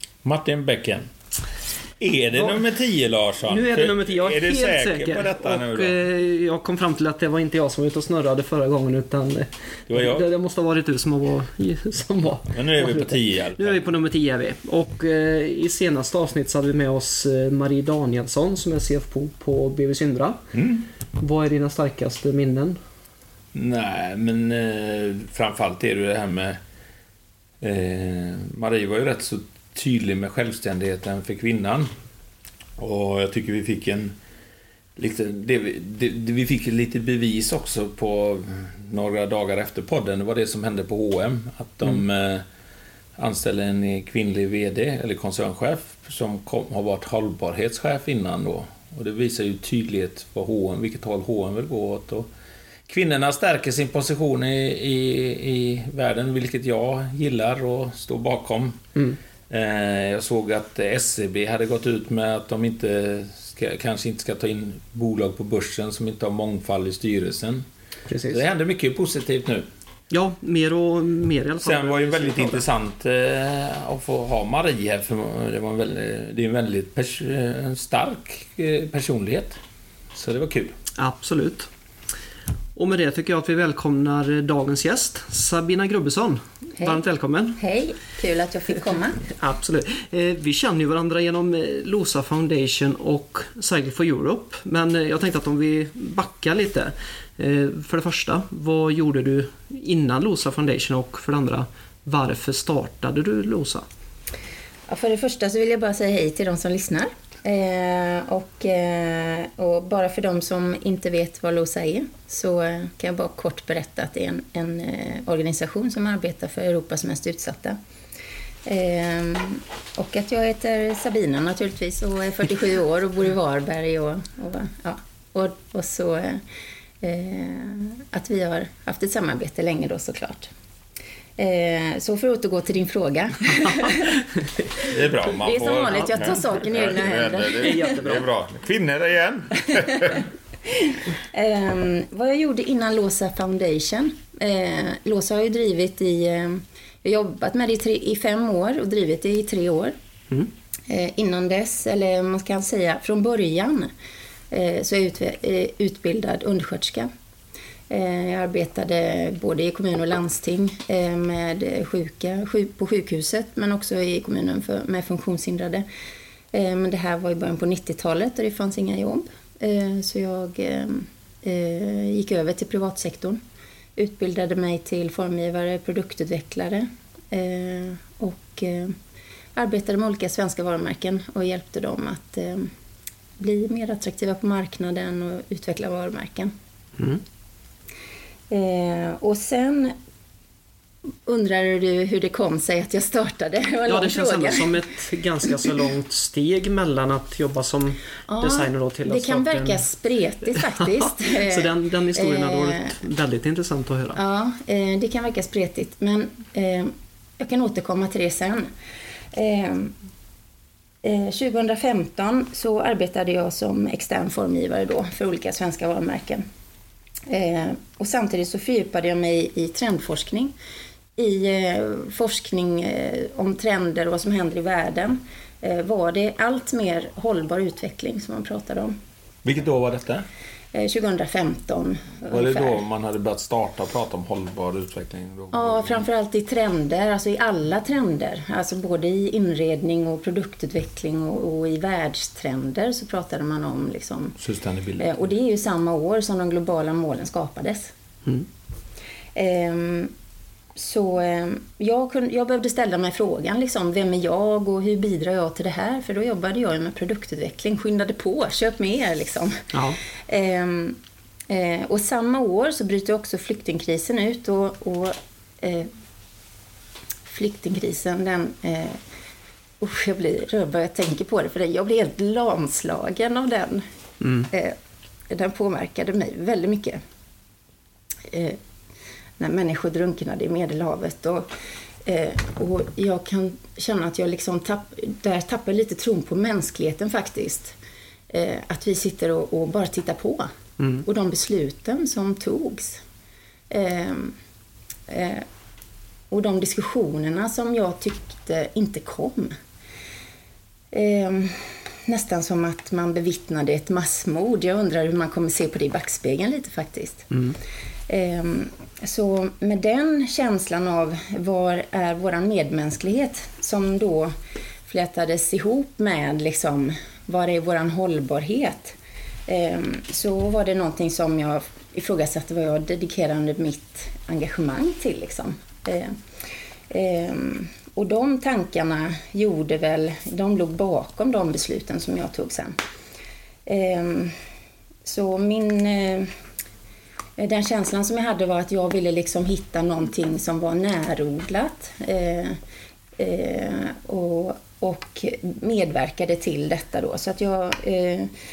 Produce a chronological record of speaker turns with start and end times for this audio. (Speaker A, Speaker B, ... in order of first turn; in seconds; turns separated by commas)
Speaker A: 0.2-1.1, Speaker A: 2.0-6.0, Speaker B: 3.4-20.5, Speaker A: 9.9-10.2, Speaker A: 12.5-13.8, Speaker A: 20.5-20.9, Speaker B: 21.2-22.8, Speaker A: 23.5-26.6, Speaker A: 27.6-31.9, Speaker A: 32.8-34.1, Speaker A: 35.0-42.4, Speaker A: 43.1-52.3, Speaker A: 52.9-58.8, Speaker A: 59.5-67.7, Speaker B: 68.1-68.4, Speaker A: 68.3-69.7, Speaker B: 70.1-72.6, Speaker A: 71.6-79.6, Speaker A: 80.1-80.8, Speaker B: 81.0-81.7, Speaker B: 82.7-87.6, Speaker C: 87.6-89.2, Speaker B: 89.2-103.8, Speaker C: 104.9-117.8, Speaker C: 118.6-126.4, Speaker C: 127.0-130.5, Speaker C: 131.4-134.2, Speaker A: 134.8-140.2, Speaker C: 135.3-137.9, Speaker B: 137.4-138.3, Speaker C: 140.8-149.9, Speaker C: 150.9-153.9, Speaker C: 154.5-157.1, Speaker C: 157.9-165.8, Speaker C: 166.5-173.4, Speaker C: 173.9-179.0, Speaker C: 179.5-182.7, Speaker C: 183.4-186.5, Speaker C: 188.5-189.9, Speaker C: 191.2-194.8, Speaker B: 193.9-199.8, Speaker C: 198.3-202.9, Speaker B: 200.6-204.2, Speaker C: 204.1-208.7, Speaker C: 209.3-209.9, Speaker C: 211.0-216.4, Speaker C: 217.3-220.5, Speaker C: 221.2-228.9, Speaker A: 229.4-230.2, Speaker C: 230.7-232.8, Speaker A: 232.3-236.0, Speaker C: 235.5-244.4, Speaker A: 244.4-245.2, Speaker C: 245.0-247.9, Speaker C: 249.3-250.1, Speaker C: 250.7-259.7, Speaker B: 259.7-260.0, Speaker C: 260.3-265.9, Speaker C: 267.3-269.0, Speaker C: 269.8-273.9, Speaker B: 274.2-274.5, Speaker C: 274.5-274.8, Speaker C: 275.3-277.0, Speaker C: 278.3-278.6, Speaker C: 279.4-281.5, Speaker C: 282.0-287.8, Speaker C: 288.3-293.0, Speaker B: 290.8-291.0, Speaker C: 293.7-294.4, Speaker C: 295.1-295.4, Speaker C: 296.3-299.6, Speaker C: 300.9-307.3, Speaker C: 308.1-314.3, Speaker C: 314.9-318.9, Speaker C: 319.5-326.2, Speaker C: 326.9-332.8, Speaker C: 333.6-334.4, Speaker C: 335.0-336.3, Speaker C: 337.4-342.6, Speaker C: 343.2-348.3